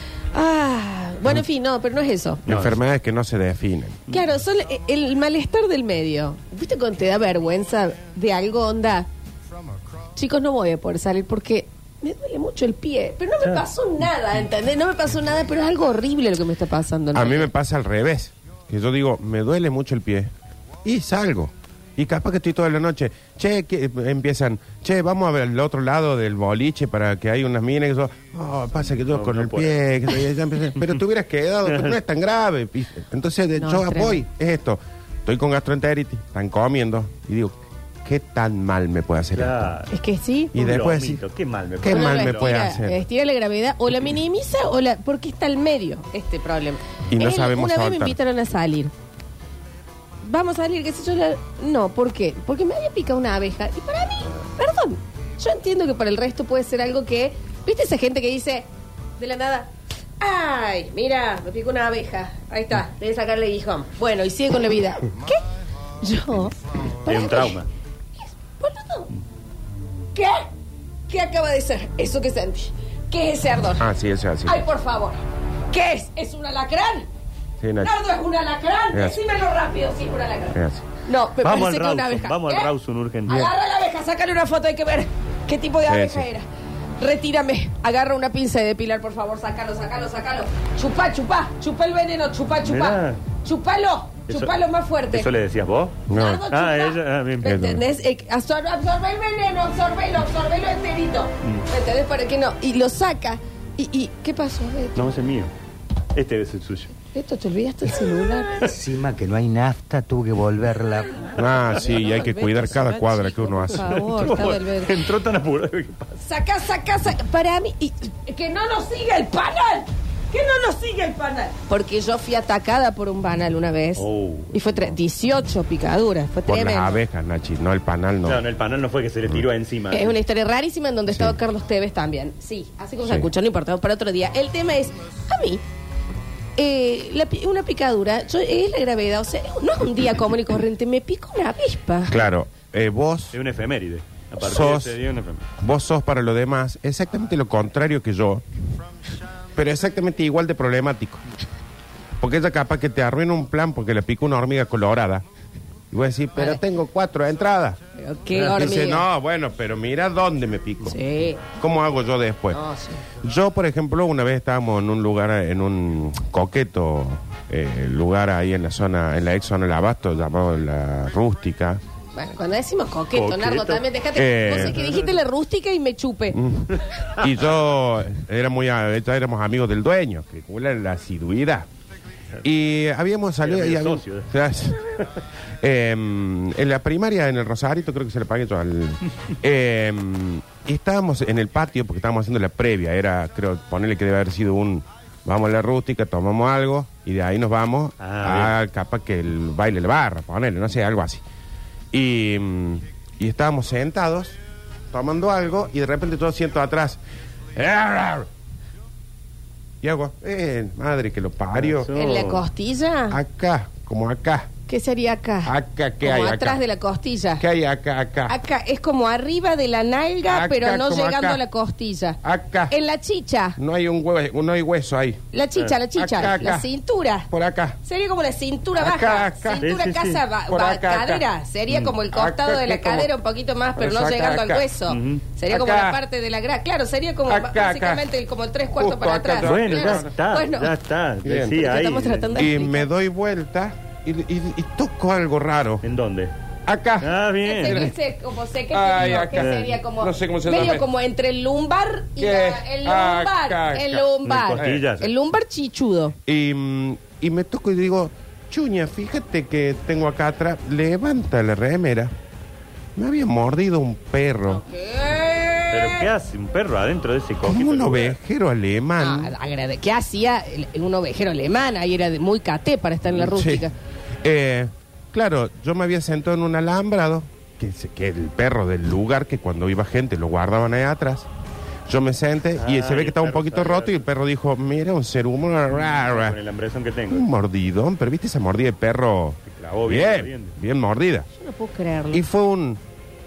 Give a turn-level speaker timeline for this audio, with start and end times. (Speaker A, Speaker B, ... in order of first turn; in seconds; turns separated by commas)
Speaker A: 0.3-2.5, Speaker B: 2.5-2.8, Speaker C: 2.5-4.0, Speaker A: 4.1-9.1, Speaker A: 10.2-17.5, Speaker C: 17.1-20.3, Speaker C: 20.8-39.7, Speaker B: 29.1-30.9, Speaker B: 31.7-31.9, Speaker A: 33.5-34.2, Speaker B: 39.3-39.9, Speaker A: 39.9-40.5, Speaker C: 40.5-41.2, Speaker B: 40.5-42.7, Speaker C: 41.8-43.0, Speaker A: 41.9-48.9, Speaker C: 47.1-48.1, Speaker A: 50.2-58.6, Speaker A: 59.2-59.7, Speaker A: 60.2-65.4, Speaker A: 66.0-67.6, Speaker B: 67.0-67.7, Speaker A: 68.4-69.1, Speaker A: 70.1-70.4, Speaker A: 71.1-73.9, Speaker C: 73.8-74.6, Speaker A: 74.4-75.2, Speaker A: 75.7-77.0, Speaker C: 77.6-77.9, Speaker A: 77.8-82.7, Speaker C: 78.9-79.2, Speaker C: 80.5-80.8, Speaker B: 81.4-83.5, Speaker A: 83.3-86.5, Speaker C: 85.8-86.3, Speaker A: 87.0-95.3, Speaker B: 92.6-93.2, Speaker B: 94.3-94.5, Speaker B: 95.1-97.7, Speaker C: 96.1-96.5, Speaker A: 96.1-105.1, Speaker C: 97.4-97.8, Speaker B: 105.0-105.5, Speaker B: 106.1-106.9, Speaker A: 107.1-108.7, Speaker D: 108.7-111.2, Speaker A: 111.2-115.0, Speaker C: 111.3-114.1, Speaker B: 113.8-116.2, Speaker A: 116.2-127.0, Speaker B: 124.0-124.5, Speaker C: 126.5-128.4, Speaker B: 128.2-130.2, Speaker A: 129.9-135.6, Speaker C: 131.1-131.3, Speaker C: 133.0-133.3, Speaker A: 136.6-142.2, Speaker C: 142.1-143.3, Speaker B: 143.3-145.5, Speaker C: 144.4-145.0, Speaker C: 145.6-148.4, Speaker C: 149.5-151.2, Speaker C: 152.2-155.2, Speaker C: 155.9-157.8, Speaker A: 156.3-156.6, Speaker A: 157.9-159.1, Speaker B: 158.3-158.7, Speaker C: 158.5-161.0, Speaker A: 160.8-161.4, Speaker C: 161.5-162.6, Speaker A: 162.5-163.0, Speaker C: 163.2-171.8, Speaker A: 172.1-176.4, Speaker B: 173.1-173.8, Speaker C: 174.1-174.8, Speaker B: 174.4-175.1, Speaker C: 176.3-181.7, Speaker B: 176.8-177.3, Speaker C: 182.4-185.1, Speaker B: 183.4-184.4, Speaker C: 185.6-201.2, Speaker B: 198.0-198.6, Speaker C: 201.9-204.4, Speaker C: 204.9-207.0, Speaker C: 207.6-208.3, Speaker C: 209.8-211.9, Speaker B: 211.5-212.4, Speaker A: 211.9-213.2, Speaker C: 213.1-214.5, Speaker A: 214.7-217.4, Speaker C: 215.4-216.6, Speaker C: 217.4-218.3, Speaker A: 218.3-223.6, Speaker C: 220.3-221.4, Speaker C: 222.2-222.7, Speaker C: 223.6-225.2, Speaker A: 225.3-227.3, Speaker C: 225.9-226.7, Speaker C: 227.3-227.8, Speaker A: 227.8-240.7, Speaker C: 228.8-229.7, Speaker B: 229.6-230.2, Speaker C: 230.5-231.3, Speaker B: 231.7-232.0, Speaker C: 232.1-233.1, Speaker C: 233.8-234.7, Speaker B: 234.9-235.2, Speaker C: 235.5-236.0, Speaker C: 237.3-238.1, Speaker C: 238.7-240.1, Speaker B: 239.4-242.3, Speaker C: 241.2-241.6, Speaker A: 241.5-242.9, Speaker C: 242.3-245.8, Speaker B: 245.8-246.3, Speaker C: 246.7-248.0, Speaker B: 247.0-247.9, Speaker A: 247.4-256.1, Speaker C: 248.7-250.9, Speaker B: 249.1-249.7, Speaker C: 252.2-254.9, Speaker B: 254.2-255.1, Speaker C: 256.2-262.1, Speaker C: 262.9-264.6, Speaker A: 264.5-266.1, Speaker B: 265.7-268.1, Speaker C: 267.4-269.3, Speaker A: 269.0-273.7, Speaker C: 273.2-273.7, Speaker C: 274.2-281.3, Speaker C: 281.9-286.4, Speaker B: 282.6-284.0, Speaker B: 285.7-287.2, Speaker C: 287.1-291.3, Speaker B: 289.5-290.6, Speaker A: 291.3-292.2, Speaker C: 292.1-292.8